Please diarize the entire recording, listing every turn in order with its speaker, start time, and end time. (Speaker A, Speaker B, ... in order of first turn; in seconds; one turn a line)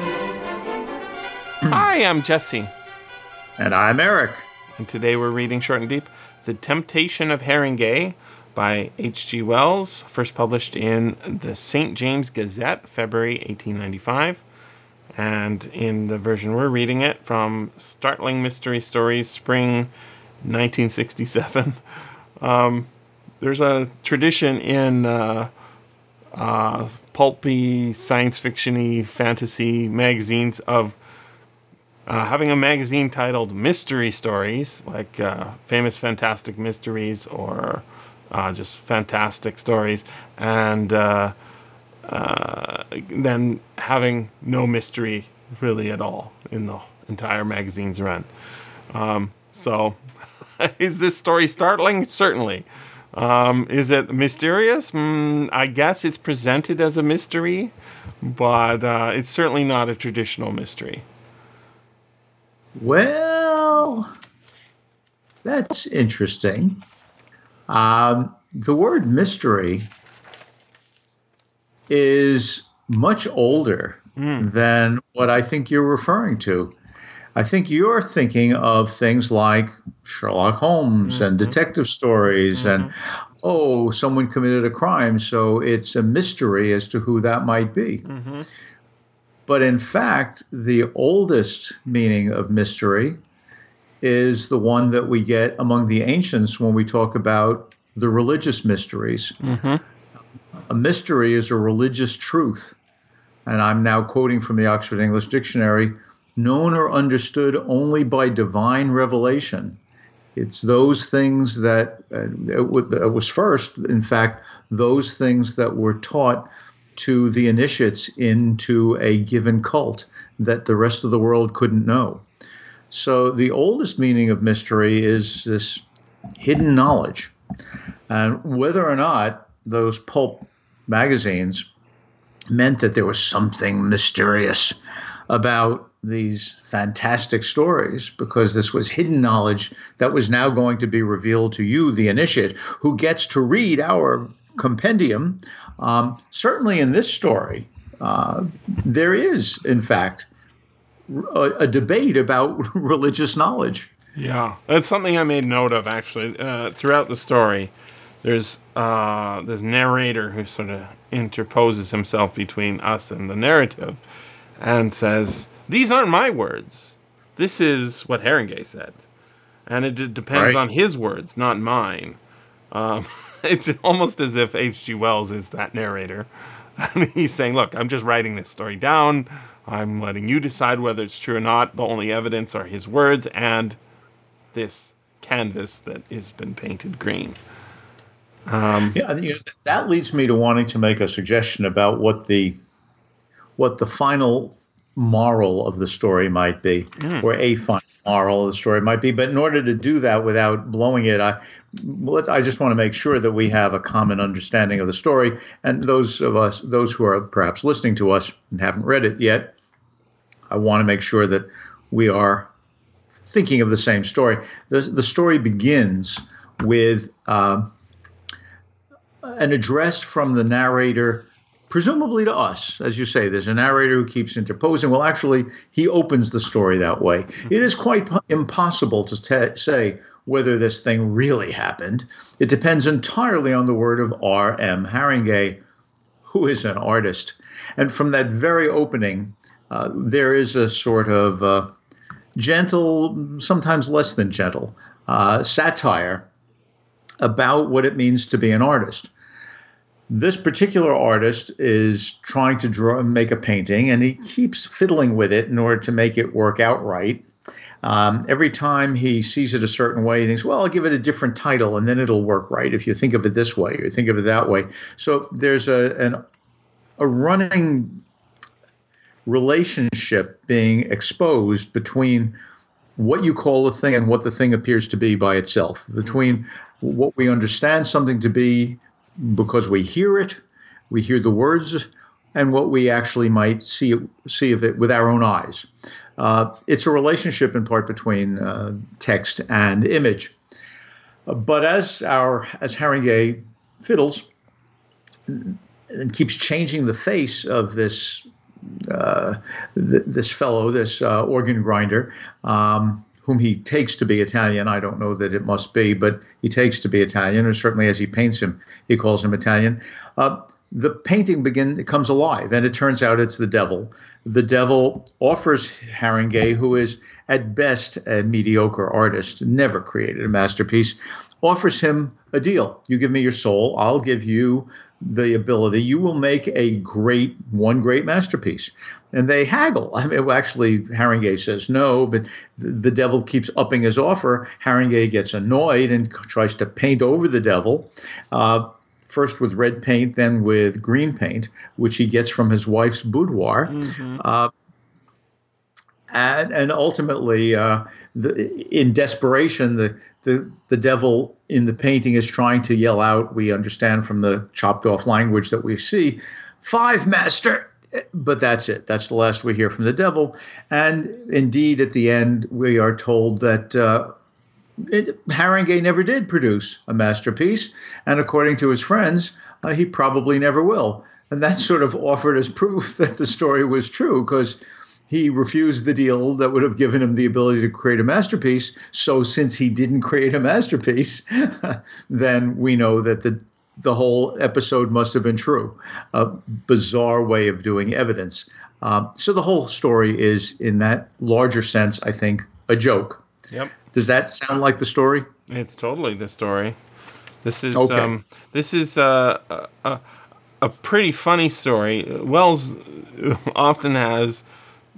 Speaker A: 1.7-2.7
Speaker B: 3.6-4.5
Speaker A: 4.8-14.4
Speaker A: 15.2-19.9
Speaker A: 20.4-21.8
Speaker A: 22.4-22.9
Speaker A: 23.4-25.5
Speaker A: 26.4-31.0
Speaker A: 32.1-41.3
Speaker A: 42.0-48.3
Speaker A: 48.9-50.0
Speaker A: 50.6-61.0
Speaker B: 62.8-64.1
Speaker B: 65.4-66.8
Speaker B: 67.7-69.9
Speaker B: 71.9-76.7
Speaker A: 74.2-74.5
Speaker B: 77.3-88.0
Speaker A: 81.0-81.5
Speaker A: 82.5-82.9
Speaker A: 88.0-88.5
Speaker B: 89.5-93.2
Speaker B: 94.0-99.4
Speaker A: 99.4-99.8
Speaker B: 100.7-102.8
Speaker B: 103.5-109.8
Speaker B: 110.3-122.2
Speaker B: 122.9-125.8
Speaker B: 126.4-127.3
Speaker B: 128.1-131.7
Speaker B: 132.5-134.8
Speaker B: 135.3-150.3
Speaker B: 151.1-153.9
Speaker A: 154.2-157.7
Speaker A: 158.2-164.0
Speaker A: 164.6-169.0
Speaker A: 169.7-172.2
Speaker B: 170.3-170.6
Speaker A: 172.7-183.8
Speaker A: 184.5-187.4
Speaker A: 188.5-189.0
Speaker B: 188.9-192.6
Speaker B: 193.6-209.5
Speaker A: 197.0-197.3
Speaker B: 210.5-212.5
Speaker B: 213.3-217.7
Speaker B: 219.2-235.6
Speaker B: 236.2-241.7
Speaker B: 242.3-246.3
Speaker B: 247.2-249.1
Speaker B: 250.1-257.2
Speaker B: 257.8-266.2
Speaker B: 267.0-268.0
Speaker B: 269.2-272.3
Speaker B: 272.9-290.4
Speaker B: 291.3-294.3
Speaker B: 295.3-344.5
Speaker A: 343.7-344.2
Speaker B: 346.1-364.1
Speaker B: 364.8-393.2
Speaker B: 393.9-395.3
Speaker A: 395.5-396.8
Speaker A: 397.4-400.0
Speaker B: 397.7-398.1
Speaker A: 400.6-404.4